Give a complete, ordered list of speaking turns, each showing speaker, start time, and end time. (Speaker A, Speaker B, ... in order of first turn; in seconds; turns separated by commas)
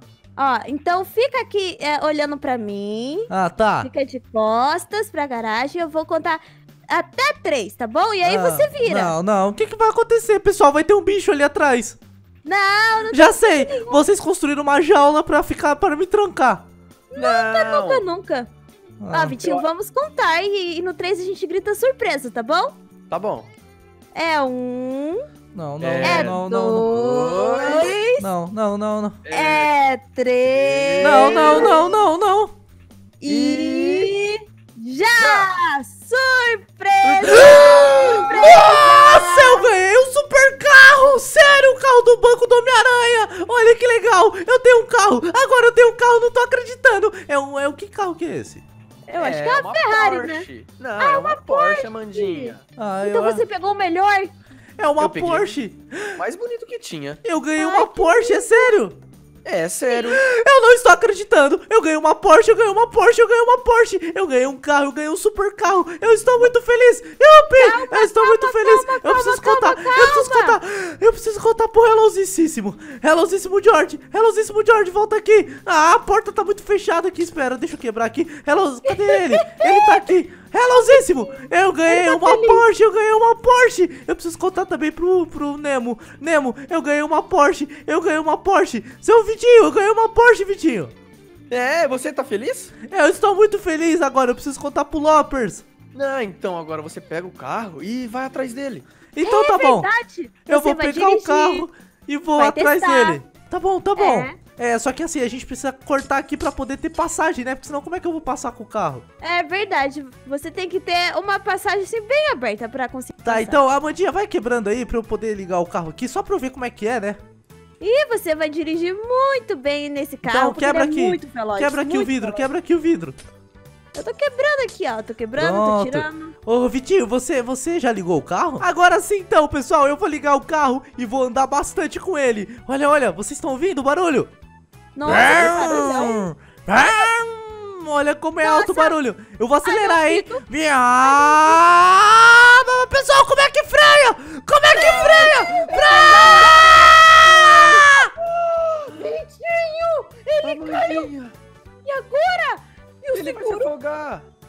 Speaker A: 0.3-3.3, Speaker B: 3.3-3.9, Speaker A: 3.8-9.1, Speaker B: 8.2-12.0, Speaker A: 12.4-14.0, Speaker B: 13.1-16.6, Speaker A: 17.1-18.5, Speaker C: 17.1-18.0, Speaker B: 19.0-19.4, Speaker A: 19.1-22.7, Speaker C: 19.4-19.7, Speaker C: 23.1-23.5, Speaker A: 24.1-25.2, Speaker B: 25.5-27.2, Speaker C: 25.8-26.4, Speaker A: 26.0-28.3, Speaker C: 27.0-27.9, Speaker B: 28.2-29.2, Speaker C: 29.2-29.7, Speaker A: 29.3-32.0, Speaker C: 30.4-31.9, Speaker B: 31.0-32.5, Speaker A: 33.2-39.7, Speaker B: 33.3-33.7, Speaker C: 33.6-34.0, Speaker C: 35.2-35.5, Speaker C: 37.0-38.4, Speaker B: 37.4-48.6, Speaker A: 49.1-50.4, Speaker C: 49.1-52.6, Speaker A: 51.0-54.3, Speaker B: 52.8-53.4, Speaker B: 54.8-56.2, Speaker C: 55.0-55.5, Speaker C: 56.1-57.2, Speaker B: 57.2-59.0, Speaker A: 57.6-58.8, Speaker C: 59.4-60.2, Speaker B: 60.0-90.9, Speaker A: 67.5-70.6, Speaker A: 78.8-80.1, Speaker A: 80.7-82.6, Speaker C: 91.5-92.8, Speaker B: 92.8-95.6, Speaker C: 95.9-98.8, Speaker B: 99.1-99.9, Speaker A: 99.2-101.7, Speaker B: 100.5-109.0, Speaker A: 102.4-103.2, Speaker A: 104.0-104.4, Speaker A: 109.2-113.6, Speaker B: 113.2-117.2, Speaker A: 117.8-122.5, Speaker B: 120.2-123.2, Speaker A: 123.9-126.3, Speaker B: 125.4-134.3, Speaker A: 134.9-137.1, Speaker B: 135.0-148.1, Speaker C: 135.2-136.1, Speaker A: 138.4-139.0, Speaker A: 139.6-140.4, Speaker A: 141.0-141.6, Speaker C: 144.7-146.9, Speaker A: 145.4-148.1, Speaker C: 148.2-148.9, Speaker A: 148.9-151.1, Speaker C: 150.4-151.3, Speaker A: 151.8-153.7, Speaker C: 153.1-154.2